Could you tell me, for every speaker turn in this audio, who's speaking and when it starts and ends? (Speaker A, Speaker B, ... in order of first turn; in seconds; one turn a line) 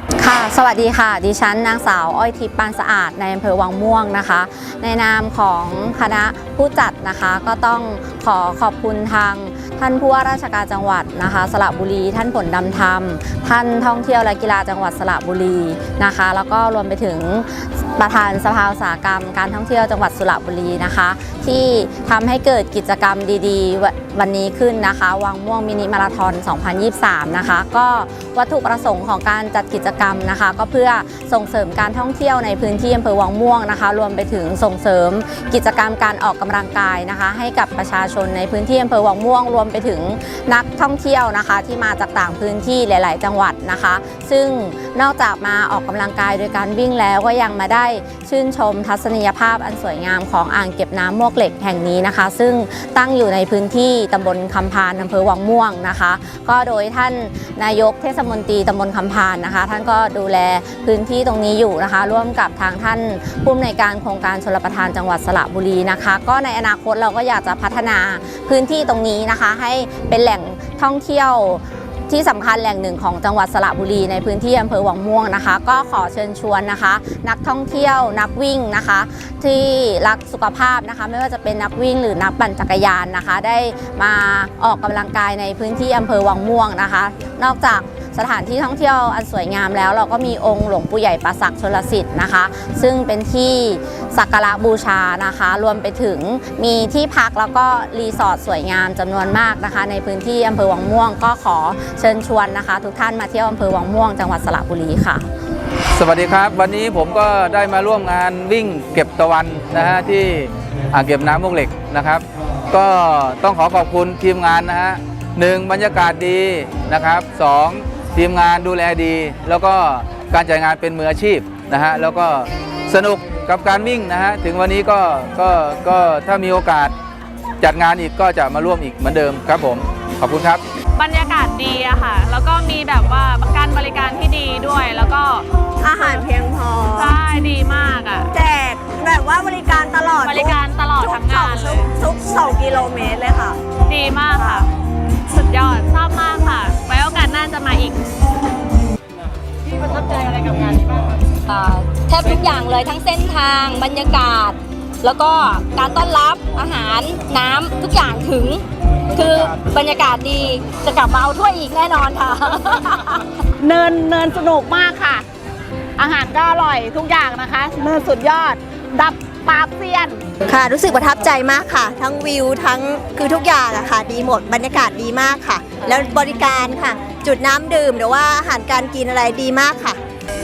Speaker A: 0.2-105.2
Speaker B: 105.9-126.9
Speaker B: 127.6-130.6
Speaker C: 131.0-135.5
Speaker D: 135.8-137.2
Speaker C: 136.0-136.2
Speaker C: 137.0-138.3
Speaker D: 138.3-143.6
Speaker C: 140.1-141.9
Speaker C: 143.9-144.7
Speaker C: 145.3-148.0
Speaker E: 151.5-163.2
Speaker F: 163.6-165.2
Speaker F: 166.0-170.2
Speaker D: 170.5-180.0